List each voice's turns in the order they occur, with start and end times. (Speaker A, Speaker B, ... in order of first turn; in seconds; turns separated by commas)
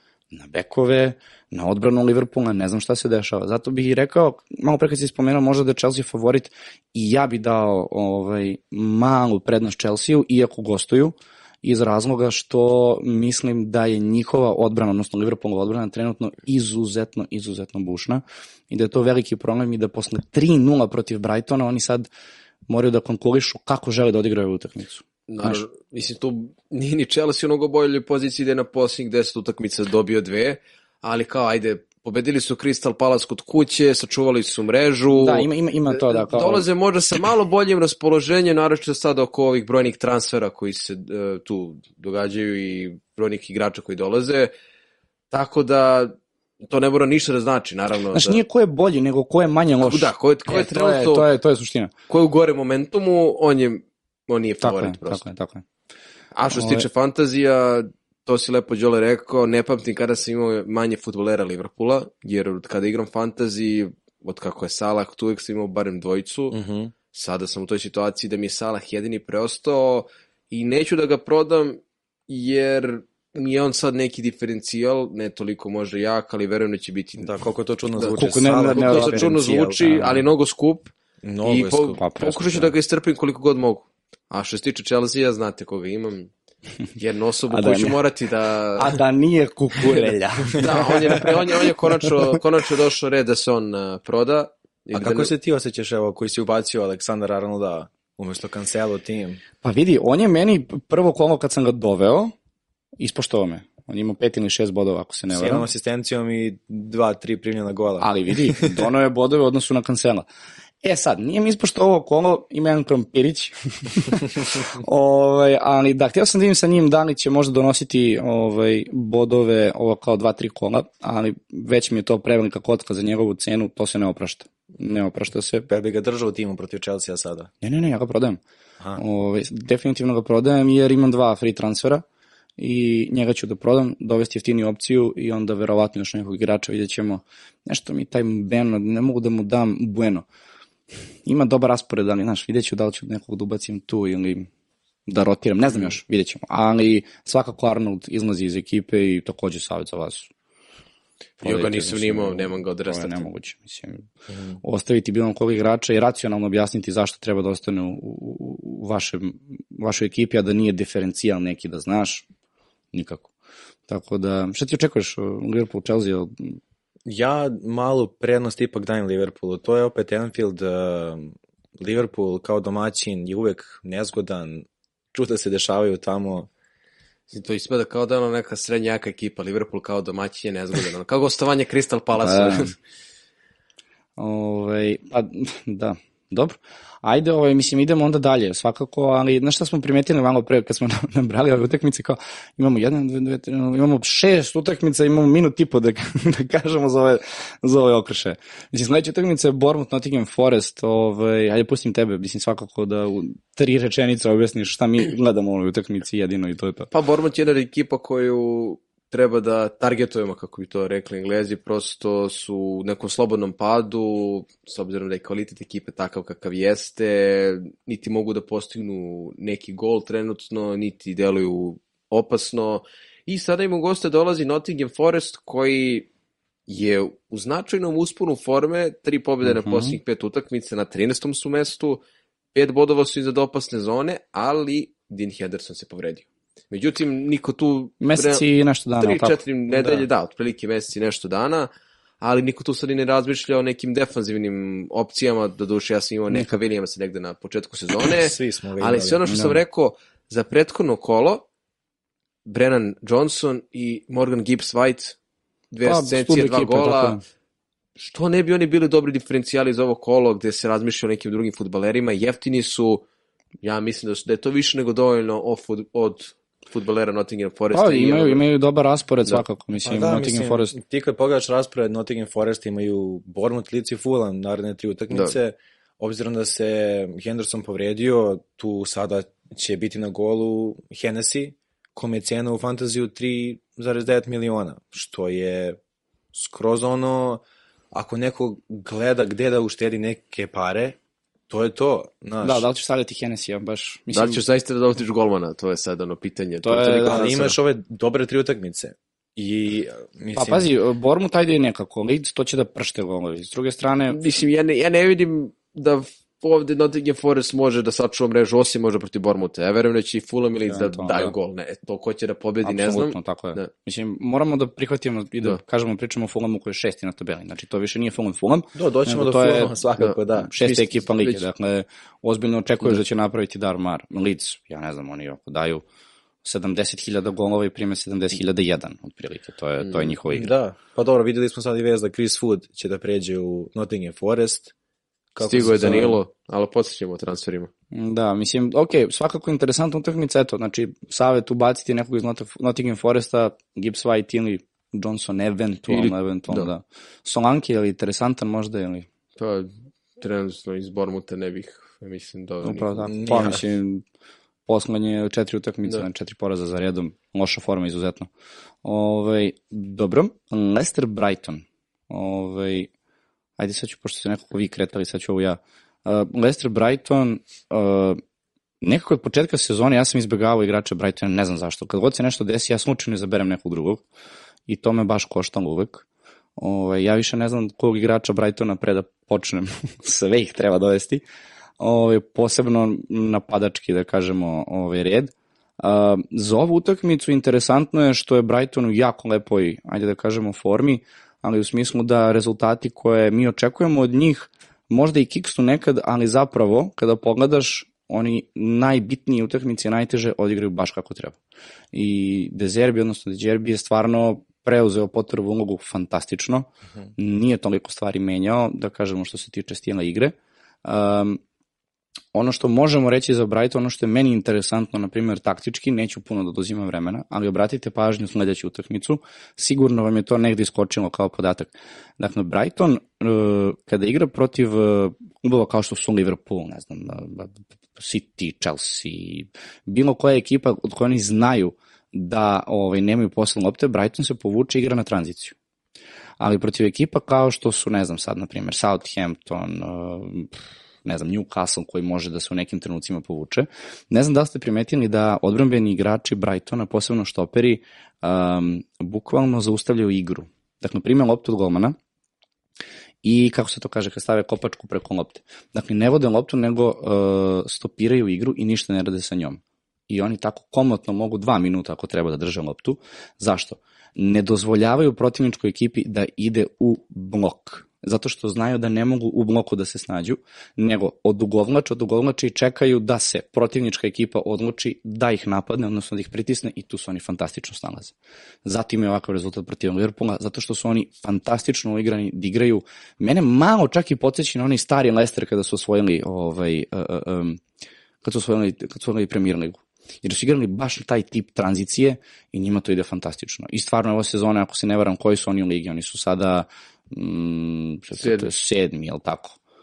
Speaker A: 0.3-22.1, Speaker A: 22.7-25.6, Speaker B: 25.3-44.5, Speaker A: 35.1-36.7, Speaker B: 45.3-48.4, Speaker A: 48.1-51.9, Speaker B: 49.8-51.3, Speaker B: 52.1-55.2, Speaker A: 54.6-55.6, Speaker B: 56.4-66.6, Speaker A: 56.5-56.9, Speaker C: 66.5-66.9, Speaker B: 67.1-77.4, Speaker C: 77.2-79.9, Speaker B: 78.0-80.9, Speaker A: 78.2-80.2, Speaker C: 81.2-82.0, Speaker B: 81.4-86.3, Speaker A: 82.0-82.7, Speaker B: 87.0-89.0, Speaker A: 87.5-88.0, Speaker A: 88.8-91.9, Speaker B: 90.6-95.3, Speaker C: 94.9-99.4, Speaker A: 99.6-102.3, Speaker A: 103.0-105.7, Speaker C: 105.3-108.8, Speaker A: 108.0-110.2, Speaker A: 110.8-125.7, Speaker C: 125.7-127.5, Speaker A: 127.6-128.4, Speaker A: 129.0-132.0, Speaker A: 132.6-140.2, Speaker A: 141.2-144.5, Speaker A: 145.1-150.3, Speaker B: 151.4-153.3, Speaker A: 151.4-154.1, Speaker C: 154.3-154.6, Speaker A: 154.6-162.2, Speaker A: 162.9-163.3, Speaker A: 163.9-166.6, Speaker C: 167.1-176.5, Speaker B: 177.3-182.7, Speaker A: 182.2-182.7, Speaker A: 184.2-206.9, Speaker B: 206.9-226.1, Speaker B: 226.7-232.0, Speaker A: 229.5-230.0, Speaker B: 232.5-238.4, Speaker A: 238.0-239.4, Speaker B: 239.0-241.7, Speaker C: 239.7-240.0, Speaker B: 242.2-251.4, Speaker C: 248.1-249.2, Speaker A: 249.2-249.6, Speaker B: 252.5-255.2, Speaker B: 255.7-257.2, Speaker A: 255.8-257.2, Speaker B: 258.0-263.1, Speaker B: 263.6-268.4, Speaker A: 267.7-270.7, Speaker C: 269.9-285.8, Speaker C: 286.3-291.0, Speaker C: 291.5-292.7, Speaker A: 292.4-294.4, Speaker B: 294.1-297.4, Speaker A: 296.6-297.6, Speaker C: 297.1-300.7, Speaker A: 300.4-304.2, Speaker B: 304.1-313.7, Speaker A: 310.7-311.3, Speaker A: 312.6-319.8, Speaker C: 318.8-320.5, Speaker B: 320.0-321.5, Speaker A: 320.4-325.8, Speaker A: 326.4-330.5, Speaker B: 329.8-330.1, Speaker C: 330.3-334.7, Speaker C: 335.4-336.2, Speaker B: 335.4-337.7, Speaker A: 337.9-349.1, Speaker B: 345.9-346.7, Speaker B: 349.4-352.9, Speaker A: 352.6-354.0, Speaker C: 353.1-353.6, Speaker A: 354.7-358.3, Speaker A: 358.8-362.9, Speaker A: 363.6-368.2, Speaker A: 368.8-374.0, Speaker A: 374.7-376.1, Speaker A: 376.6-381.2, Speaker A: 381.8-401.4, Speaker A: 401.9-410.3, Speaker A: 410.9-411.4, Speaker A: 412.3-435.6, Speaker A: 436.4-440.5, Speaker A: 441.0-452.0, Speaker A: 453.2-487.6, Speaker A: 488.2-499.6, Speaker B: 498.2-498.5